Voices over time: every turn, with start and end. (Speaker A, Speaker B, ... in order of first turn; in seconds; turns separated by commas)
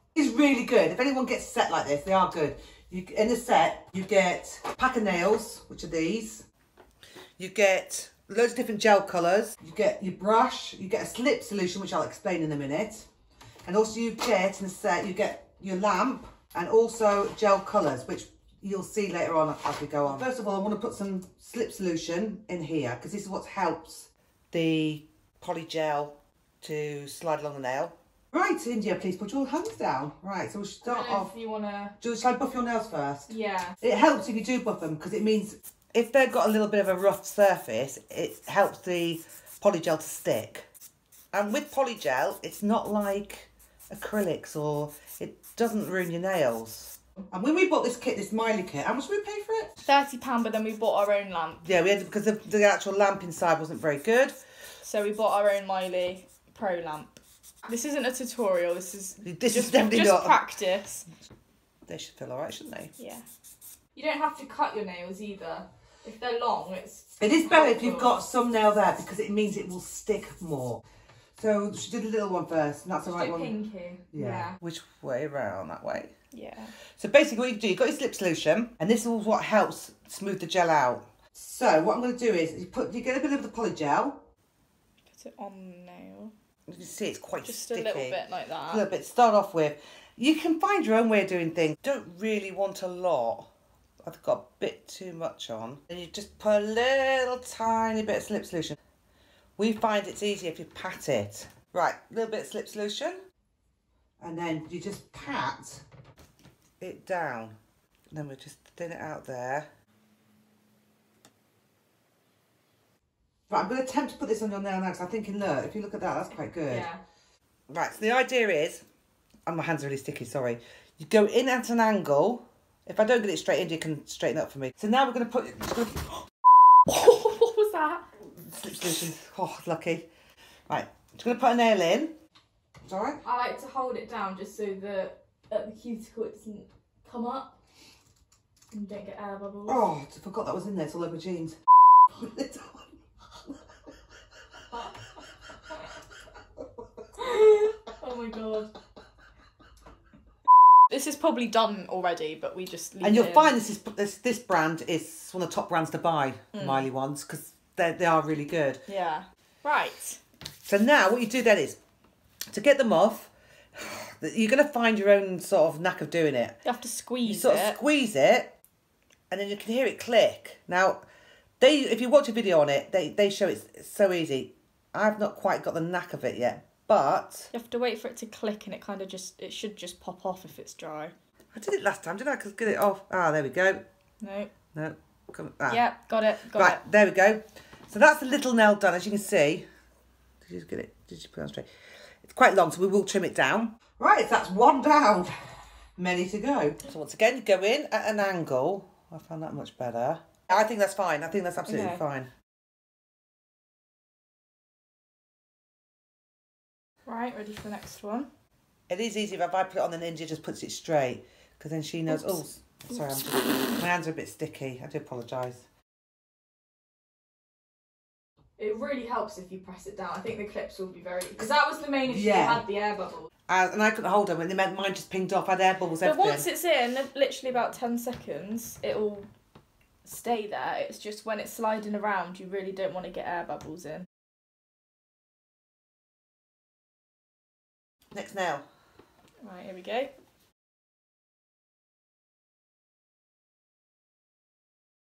Speaker A: 0.1-6.5, Speaker A: 7.4-13.1, Speaker A: 13.7-31.3, Speaker B: 30.8-31.9, Speaker A: 32.0-40.7, Speaker B: 33.3-33.8, Speaker A: 41.3-49.7, Speaker B: 49.8-51.7, Speaker A: 51.6-54.4, Speaker B: 54.8-61.1, Speaker A: 59.2-60.4, Speaker A: 61.9-62.9, Speaker B: 63.0-63.2, Speaker B: 64.0-68.2, Speaker A: 67.2-70.8, Speaker A: 71.4-73.5, Speaker B: 73.1-74.6, Speaker A: 74.1-76.1, Speaker B: 76.3-76.7, Speaker A: 76.9-84.2, Speaker B: 85.1-86.3, Speaker A: 86.7-93.5, Speaker B: 87.5-88.8, Speaker A: 94.0-98.8, Speaker A: 99.6-103.2, Speaker A: 104.2-105.8, Speaker A: 106.8-107.5, Speaker A: 108.1-109.7, Speaker A: 113.5-116.9, Speaker B: 116.7-117.0, Speaker A: 117.7-118.8, Speaker A: 119.5-126.1, Speaker B: 126.9-128.0, Speaker A: 128.4-130.1, Speaker A: 130.7-132.1, Speaker A: 132.8-133.2, Speaker B: 133.2-137.6, Speaker B: 138.7-139.9, Speaker A: 139.7-141.6, Speaker A: 142.1-142.9, Speaker B: 147.2-148.7, Speaker B: 150.9-153.6, Speaker A: 153.0-158.8, Speaker B: 156.5-156.8, Speaker B: 158.9-160.2, Speaker A: 160.7-161.8, Speaker A: 162.5-166.6, Speaker B: 166.6-167.8, Speaker A: 167.3-168.5, Speaker A: 169.3-171.0, Speaker A: 171.6-177.5, Speaker B: 177.5-181.1, Speaker A: 181.5-183.8, Speaker B: 184.2-184.5, Speaker A: 184.7-185.8, Speaker B: 185.7-186.8, Speaker A: 186.5-189.7, Speaker A: 190.4-195.4, Speaker A: 196.0-202.3, Speaker B: 201.7-202.0, Speaker B: 207.1-208.3, Speaker A: 208.9-215.6, Speaker B: 218.6-223.3, Speaker A: 222.1-222.6, Speaker A: 223.5-226.5, Speaker B: 226.0-229.3, Speaker B: 230.1-234.1, Speaker A: 238.1-238.7, Speaker B: 239.4-240.1